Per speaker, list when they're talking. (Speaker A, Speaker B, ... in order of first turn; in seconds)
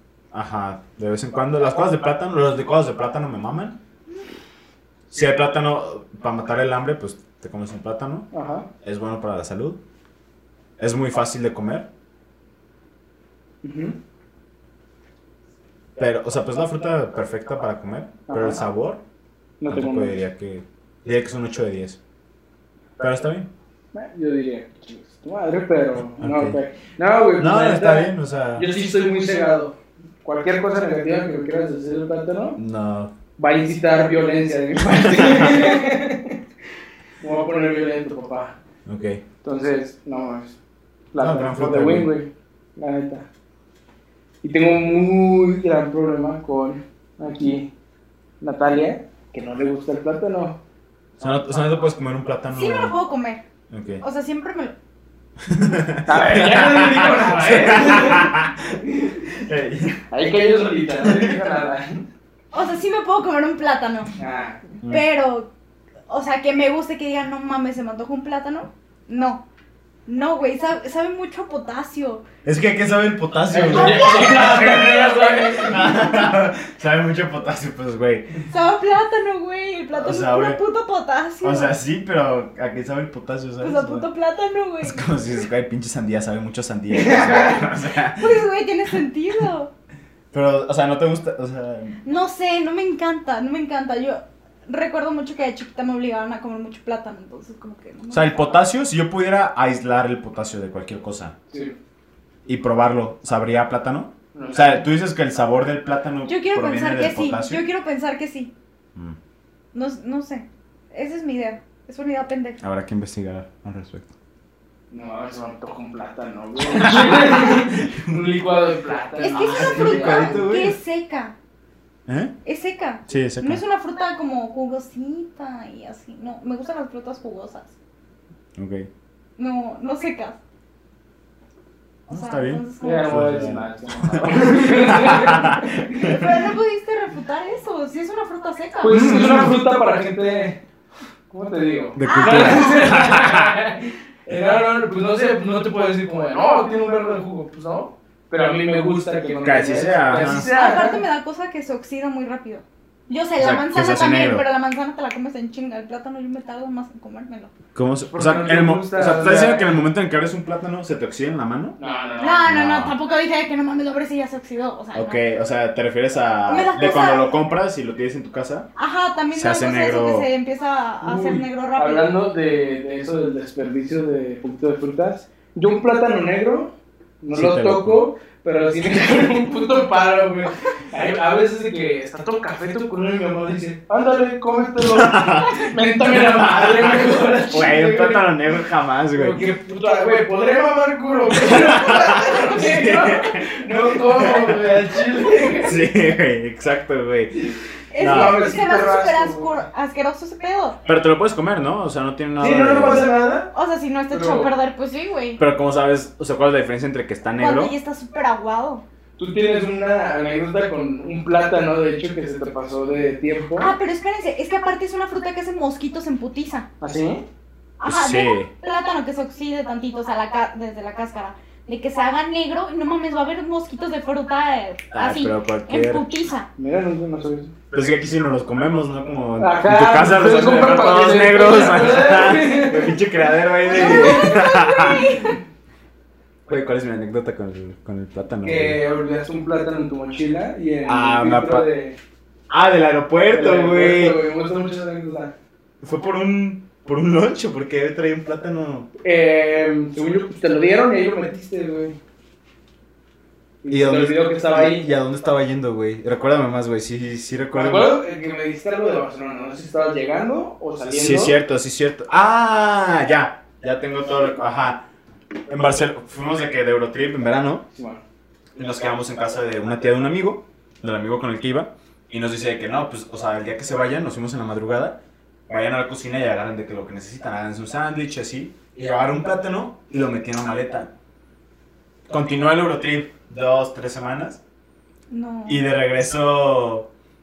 Speaker A: 0.3-3.8, 5.1-8.3, 8.8-9.8, 10.8-11.9, 16.0-19.0, 19.7-22.0, 23.0-23.5, 26.2-26.6, 27.4-28.8, 32.6-33.1, 34.9-35.8, 38.9-39.2, 41.2-42.1, 51.2-53.0, 53.7-54.0, 55.4-60.0, 61.0-61.3, 72.4-78.4, 79.9-80.6, 81.4-84.1, 84.8-88.4, 90.3-92.0, 98.1-101.3, 102.4-107.6, 112.6-114.1, 116.7-118.2, 119.3-120.8, 122.1-122.3, 123.1-123.6, 128.6-128.9, 132.1-136.4, 138.9-139.5, 141.9-143.6, 149.4-150.5, 153.4-154.4, 157.7-161.8, 162.4-162.9, 164.9-168.7, 169.3-170.3, 177.3-178.0, 184.8-189.4, 191.4-193.5, 194.1-194.8, 195.6-197.3, 198.0-198.4, 200.8-203.1, 205.4-207.7, 217.8-218.5, 224.9-226.0, 227.7-235.2, 236.5-238.8, 240.9-241.7, 242.5-244.2, 245.8-248.9, 253.7-257.9, 260.9-264.9, 265.5-267.6, 268.5-280.9, 282.1-284.4, 285.5-286.9
Speaker B: 8.3-8.7, 13.6-14.0, 18.3-18.7, 19.6-20.2, 23.9-32.6, 33.4-36.4, 37.2-38.5, 39.4-40.6, 41.1-43.3, 44.4-47.7, 48.4-50.6, 56.1-59.2, 60.1-62.1, 64.2-64.6, 73.5-76.0, 86.9-87.6, 101.5-101.8, 104.3-104.8, 114.9-120.4, 132.8-136.2, 138.8-140.6, 141.3-151.0, 158.1-159.8, 161.8-162.4, 171.0-188.3, 189.1-195.8, 197.4-199.6, 202.4-203.5, 204.1-204.5, 209.2-213.7, 216.8-217.2, 226.6-227.5, 229.4-233.0, 233.7-234.3, 238.4-242.0, 243.3-245.3, 249.0-252.0, 253.6-254.8, 257.5-261.4, 267.7-268.0
Speaker C: 52.5-53.4, 54.0-54.7, 62.5-64.1, 64.8-65.5, 66.1-69.4, 70.1-72.2, 78.5-81.7, 83.6-85.1, 88.0-89.7, 92.0-98.6, 106.2-108.5, 109.7-112.6, 119.2-121.3, 122.4-127.7, 129.4-130.4, 132.1-133.3, 136.0-139.2, 142.0-142.9, 150.2-157.5, 162.2-165.2, 166.5-167.3, 168.8-172.1, 197.9-200.8, 203.5-205.4, 207.4-208.8, 213.6-216.7, 217.8-226.5, 233.7-235.4, 285.1-285.6